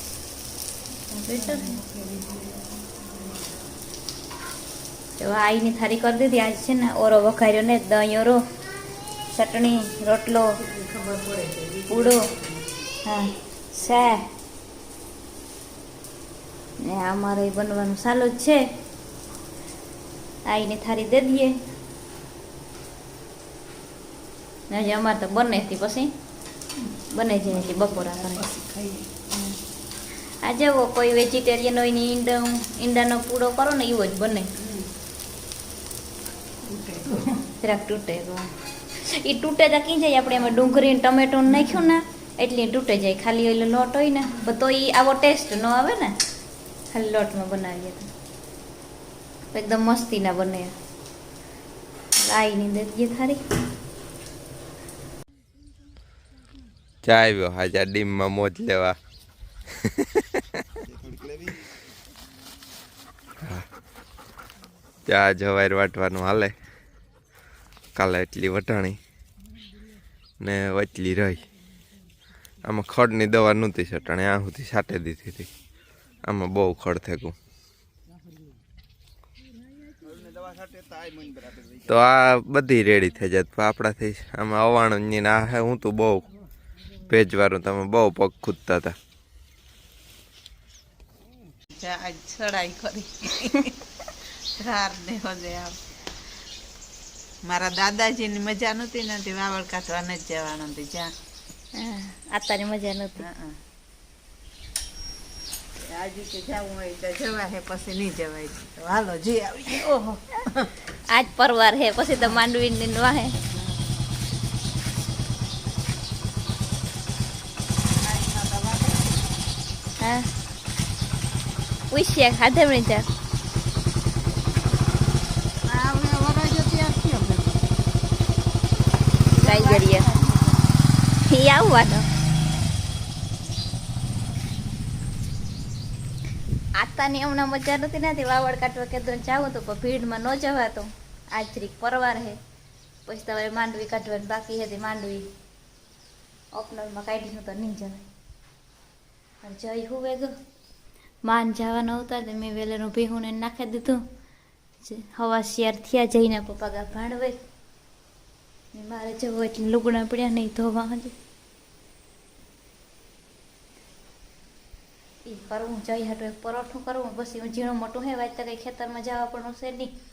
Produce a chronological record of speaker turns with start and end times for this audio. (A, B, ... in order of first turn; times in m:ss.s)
0:01.1-0:01.8 A
0:01.3-0:03.6 B
0:05.2-0:08.4 A
0:09.3-0:10.6 A
0:10.6-0:12.8 B
0:11.9-0:12.2 A
0:13.0-0:14.2 A
0:16.8-0:18.6 A
0:20.5-0:21.5 A
0:24.7-0:26.1 A
0:27.1-0:28.4 A
0:27.5-0:29.2 B
0:30.4-0:34.5 A
0:34.6-0:34.9 B
0:36.6-0:37.4 B
0:37.6-0:46.2 A
0:41.5-0:41.9 B
0:46.9-0:48.1 A
0:49.5-0:50.7 A
0:52.2-0:53.4 A
0:57.0-0:59.0 C
1:05.1-1:06.5 C
1:08.0-1:09.0 C
1:10.4-1:11.4 C
1:12.6-1:15.5 C
1:16.2-1:17.3 C
1:21.9-1:26.3 C
1:27.1-1:29.0 C
1:31.7-1:33.8 B
1:34.4-1:35.8 B
1:37.4-1:41.1 B
1:41.7-1:43.2 A
1:43.2-1:43.6 B
1:45.8-1:50.7 B
1:51.1-1:53.4 A
1:53.4-1:54.1 B
1:57.9-1:59.3 B
2:00.0-2:00.3 A
2:01.9-2:03.1 A
2:05.6-2:07.7 B
2:09.3-2:10.7 B
2:09.4-2:10.1 A
2:11.2-2:12.1 A
2:16.8-2:22.4 A
2:23.0-2:25.3 A
2:26.5-2:28.0 A
2:29.4-2:30.3 A
2:31.2-2:34.0 A
2:34.8-2:37.4 A
2:38.7-2:41.1 A
2:45.2-2:49.9 A